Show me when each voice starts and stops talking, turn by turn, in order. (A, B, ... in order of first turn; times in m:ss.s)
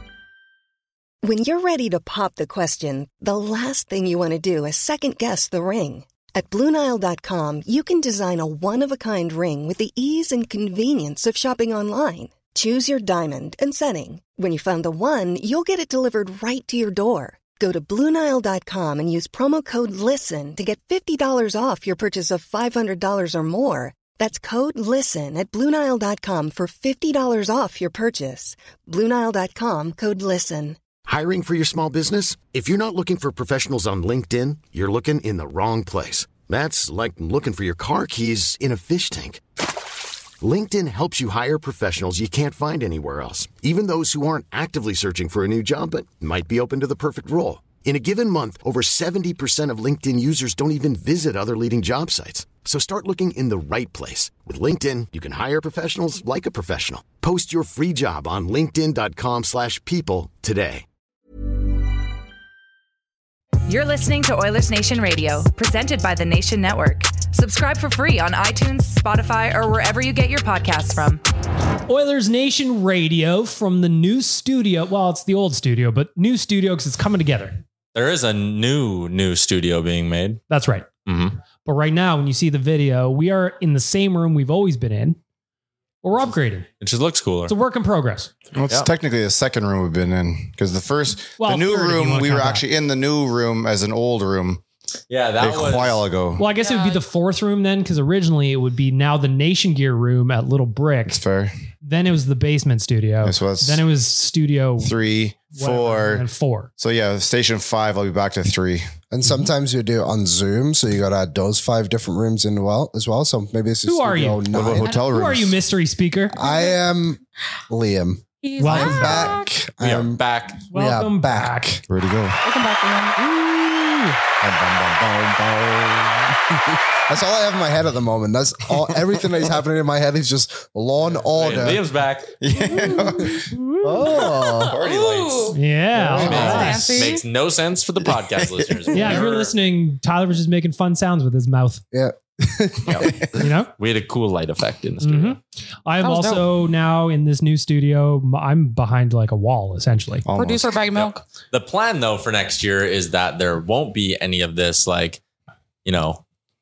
0:01.2-0:30.8 A
0:31.0-0:39.4 B
0:40.4-1:00.8 B
1:03.7-1:11.2 C
1:11.9-1:17.6 D
1:17.9-1:20.4 E
1:20.5-1:20.9 D
1:21.0-1:21.4 E
1:21.6-1:25.2 D
1:26.0-1:26.7 D
1:26.8-1:27.5 E
1:27.5-1:28.3 D
1:28.5-1:34.6 F
1:31.4-1:32.6 D
1:35.1-1:36.0 E
1:35.4-1:36.5 F
1:36.4-1:41.2 D
1:36.5-1:37.0 G
1:41.1-1:41.5 F
1:41.8-1:44.9 D
1:43.2-1:43.8 F
1:44.8-1:46.2 F
1:45.5-1:46.7 D
1:46.8-1:48.9 F
1:49.1-1:54.9 H
1:53.8-1:56.4 D
1:54.5-1:55.6 F
1:56.3-2:00.2 H
1:56.4-1:56.8 G
1:58.4-1:59.5 G
1:58.6-1:59.3 D
1:59.8-2:00.6 E
2:00.7-2:01.8 D
2:00.7-2:01.8 H
2:01.9-2:02.4 F
2:02.4-2:03.2 G
2:03.2-2:04.2 D
2:04.4-2:06.2 F
2:06.6-2:11.8 H
2:11.3-2:12.3 E
2:12.4-2:13.5 F
2:12.7-2:14.2 D
2:12.7-2:13.2 G
2:13.8-2:14.8 H
2:14.0-2:15.6 G
2:14.1-2:15.5 F
2:15.5-2:17.1 D
2:15.9-2:16.7 H
2:16.2-2:19.5 E
2:16.2-2:17.2 G
2:18.3-2:19.1 F
2:18.9-2:21.8 D
2:21.9-2:23.1 H
2:22.9-2:23.1 E
2:23.3-2:23.7 D
2:23.8-2:25.4 E
2:25.0-2:30.2 D
2:26.0-2:26.5 G
2:30.2-2:30.8 F
2:30.3-2:31.2 G
2:31.0-2:35.2 E
2:35.8-2:36.2 E